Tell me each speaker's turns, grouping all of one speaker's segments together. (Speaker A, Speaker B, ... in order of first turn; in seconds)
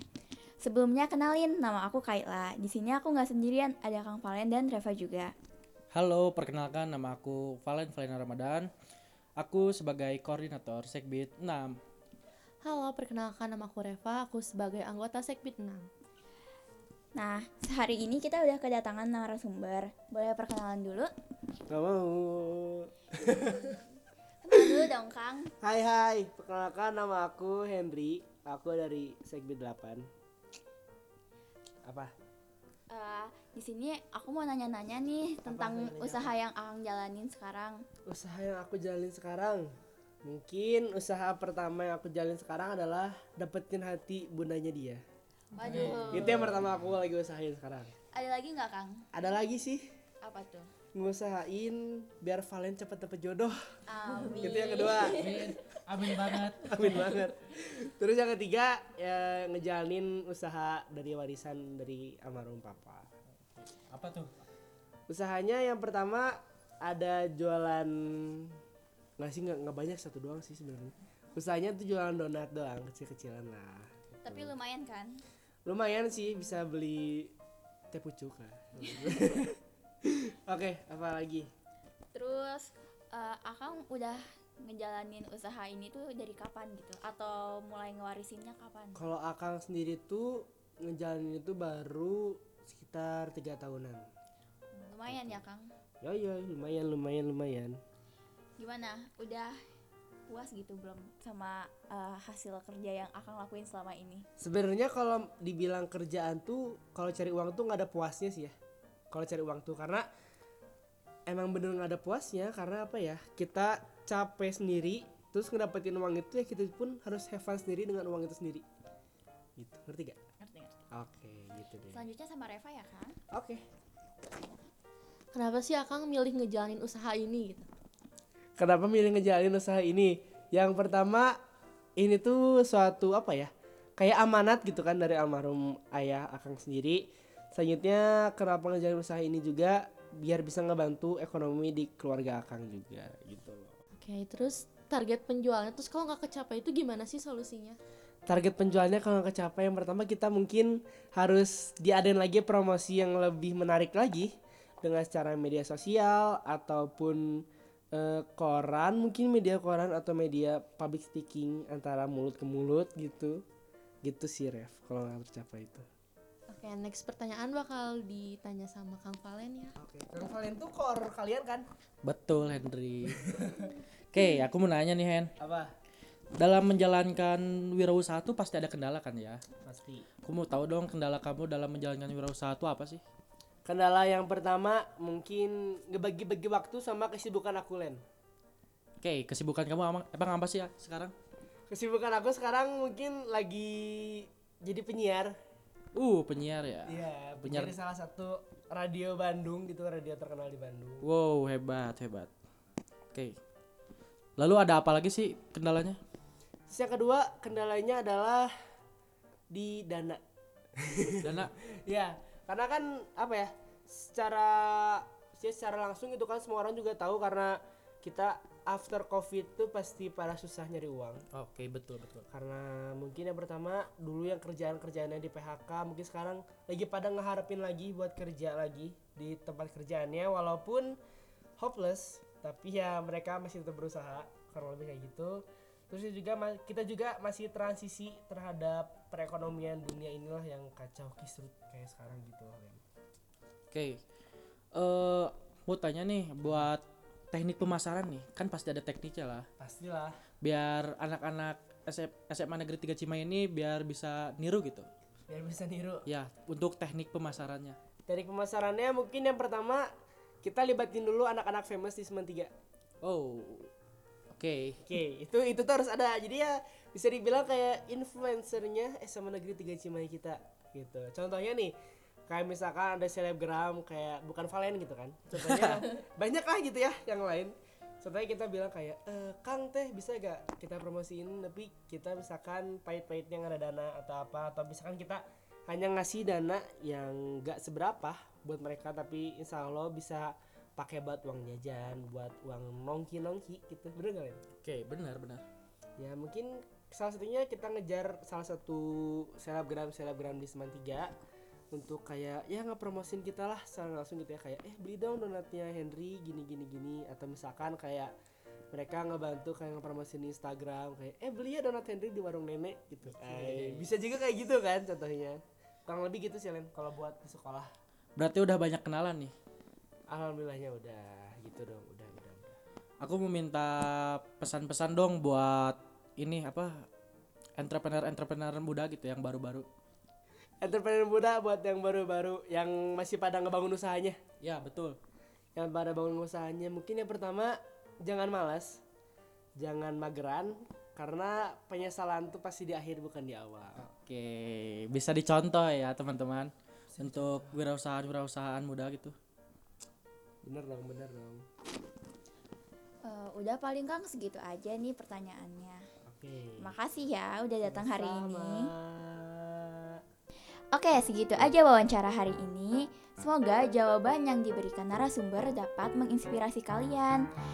Speaker A: 0.6-5.3, 17.1-21.1, 23.4-23.8, 24.4-25.5, 32.9-37.9, 45.5-46.5, 48.1-49.1, 50.2-50.7, 53.9-55.5, 74.2-75.2, 82.1-89.1, 94.7-95.7, 98.6-99.6, 100.3-104.3, 120.4-120.8, 121.9-123.2, 353.0-355.8, 356.6-358.7, 360.7-367.2
Speaker B: 5.9-8.7, 9.4-11.8, 45.7-46.5, 55.2-57.2, 63.5-64.3, 172.0-173.5, 174.1-175.3, 176.4-179.4, 180.2-183.0, 189.0-191.1, 195.9-197.8, 201.0-202.3, 204.4-206.0, 211.2-211.5, 221.3-222.3, 243.7-244.0, 244.7-249.5, 250.4-254.9, 256.1-257.8, 263.0-263.7, 264.3-264.8, 275.4-275.9, 294.6-295.4, 313.1-313.9, 318.2-319.3, 323.0-326.9, 327.6-329.7, 334.4-335.0, 343.8-349.1
Speaker C: 12.6-15.9, 125.3-127.7, 144.0-147.8, 166.5-169.8
Speaker D: 21.7-23.8, 25.6-30.1, 31.8-32.1, 35.5-36.4, 38.1-39.7, 40.2-45.0, 45.8-47.9, 49.1-49.9, 50.9-53.7, 54.4-55.6, 56.4-63.1, 65.1-68.6, 69.2-74.5, 75.7-77.3, 77.9-81.5, 89.0-94.1, 95.1-95.4, 96.0-97.8, 104.4-108.5, 109.1-110.1, 111.3-118.6, 119.6-120.2, 120.9-122.0, 123.3-123.6, 128.6-131.4, 132.0-143.8, 148.3-163.4, 164.0-165.9, 169.8-171.7, 173.1-173.7, 175.4-175.7, 179.6-180.1, 183.7-188.0, 191.7-195.4, 196.9-201.1, 206.7-208.5, 209.5-210.2, 210.8-221.2, 222.3-231.0, 231.6-242.8, 249.6-250.2, 255.3-256.1, 258.1-259.9, 260.4-262.5, 264.8-271.8, 272.3-294.4, 296.0-301.1, 301.7-308.1, 308.7-317.7, 320.1-322.6, 330.6-334.2, 335.6-338.8, 339.6-343.9, 346.9-347.6, 350.4-351.4, 356.1-356.7, 357.6-360.0